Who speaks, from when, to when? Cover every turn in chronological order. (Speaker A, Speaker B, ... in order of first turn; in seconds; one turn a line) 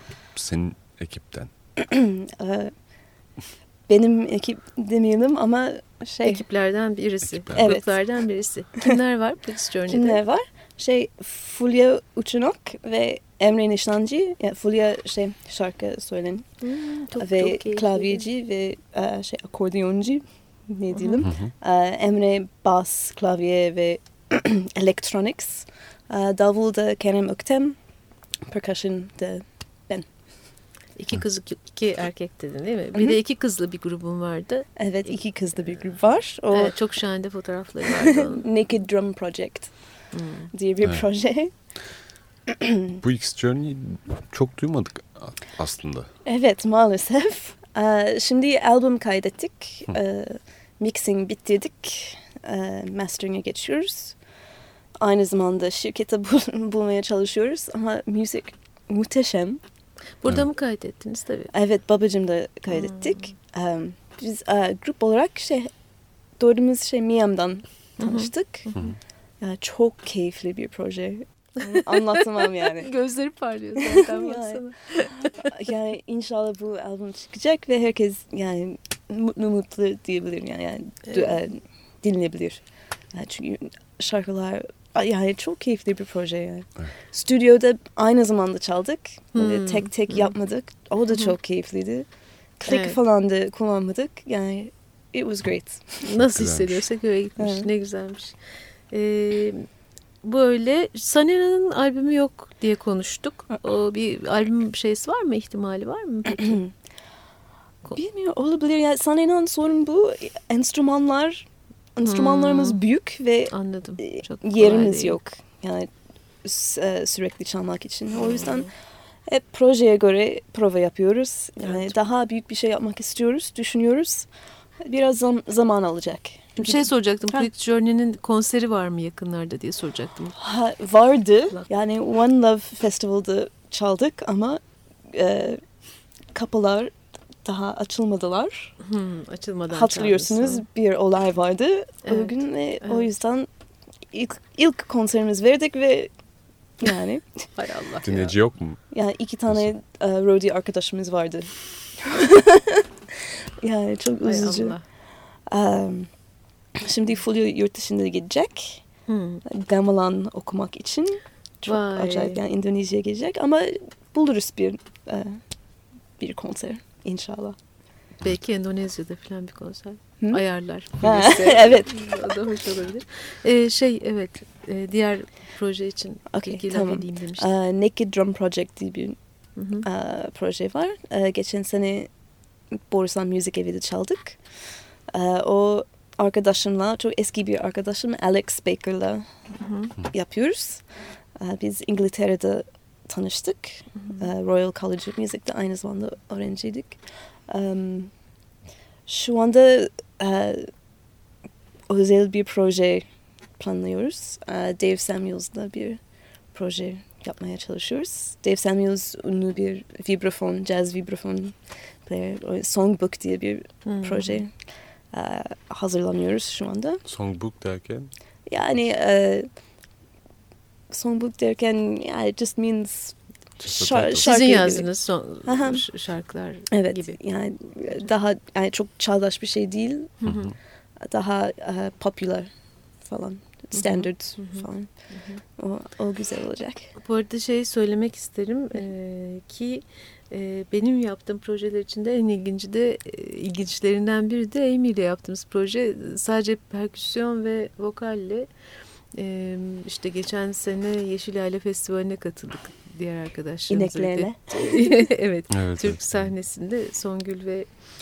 Speaker A: 0.3-1.5
Speaker B: 1.8-2.7
Speaker B: 3.9-6.4
Speaker C: 6.2-10.2
Speaker A: 7.4-7.7
Speaker B: 7.5-7.9
Speaker B: 9.9-16.5
Speaker C: 16.6-18.2
Speaker B: 17.2-27.8
Speaker C: 20.9-21.3
Speaker A: 21.2-21.5
Speaker B: 28.5-30.1
Speaker C: 31.0-35.2
Speaker B: 34.8-36.8
Speaker C: 36.5-38.5
Speaker B: 37.8-39.7
Speaker C: 40.1-40.5
Speaker B: 40.5-41.5
Speaker B: 42.5-43.0
Speaker A: 43.0-46.1
Speaker B: 46.2-54.2
Speaker B: 55.0-59.6
Speaker C: 60.2-61.5
Speaker B: 61.5-65.7
Speaker C: 62.7-63.3
Speaker B: 66.4-68.7
Speaker C: 68.0-68.9
Speaker B: 69.4-72.9
Speaker C: 71.6-75.5
Speaker B: 73.8-74.6
Speaker B: 75.2-92.1
Speaker C: 81.1-81.3
Speaker C: 89.3-90.3
Speaker B: 92.6-96.1
Speaker C: 92.7-93.0
Speaker C: 96.0-98.4
Speaker A: 96.2-96.8
Speaker B: 97.4-97.7
Speaker C: 98.9-99.7
Speaker C: 100.2-106.6
Speaker B: 106.4-106.7
Speaker B: 108.0-115.9
Speaker C: 112.0-112.8
Speaker C: 113.5-115.2
Speaker B: 116.4-118.7
Speaker C: 118.2-118.7
Speaker B: 119.3-124.3
Speaker C: 121.6-121.9
Speaker B: 124.8-127.5
Speaker C: 126.6-130.4
Speaker B: 130.4-135.6
Speaker B: 136.3-138.7
Speaker C: 138.8-140.7
Speaker B: 139.7-143.5
Speaker C: 142.1-143.1
Speaker B: 144.1-146.1
Speaker B: 146.8-147.3
Speaker C: 147.6-148.3
Speaker A: 148.0-148.8
Speaker B: 148.9-154.8
Speaker C: 154.2-154.8
Speaker B: 155.5-156.1
Speaker B: 156.8-158.8
Speaker C: 159.1-159.4
Speaker B: 159.5-165.4
Speaker C: 161.7-162.4
Speaker B: 166.2-167.6
Speaker C: 168.2-177.5
Speaker B: 171.0-171.9
Speaker B: 176.3-179.2
Speaker C: 179.6-179.9
Speaker B: 179.8-182.1
Speaker B: 182.7-184.4
Speaker B: 185.1-189.3
Speaker C: 189.6-189.9
Speaker B: 190.1-190.8
Speaker B: 191.4-198.1
Speaker C: 194.0-194.3
Speaker B: 199.1-200.7
Speaker B: 201.9-203.1
Speaker B: 203.6-206.0
Speaker B: 206.5-214.5
Speaker C: 213.9-214.4
Speaker B: 215.1-217.0
Speaker A: 217.1-218.1
Speaker B: 218.5-219.5
Speaker B: 220.9-224.9
Speaker A: 223.6-224.3
Speaker C: 224.2-227.2
Speaker B: 225.4-225.8
Speaker B: 226.7-230.2
Speaker C: 230.2-230.5
Speaker A: 230.2-230.6
Speaker B: 231.0-232.5
Speaker B: 233.0-234.9
Speaker C: 233.7-235.4
Speaker B: 235.6-236.9
Speaker C: 237.0-248.5
Speaker C: 249.1-257.7
Speaker B: 253.7-254.9
Speaker A: 255.5-256.3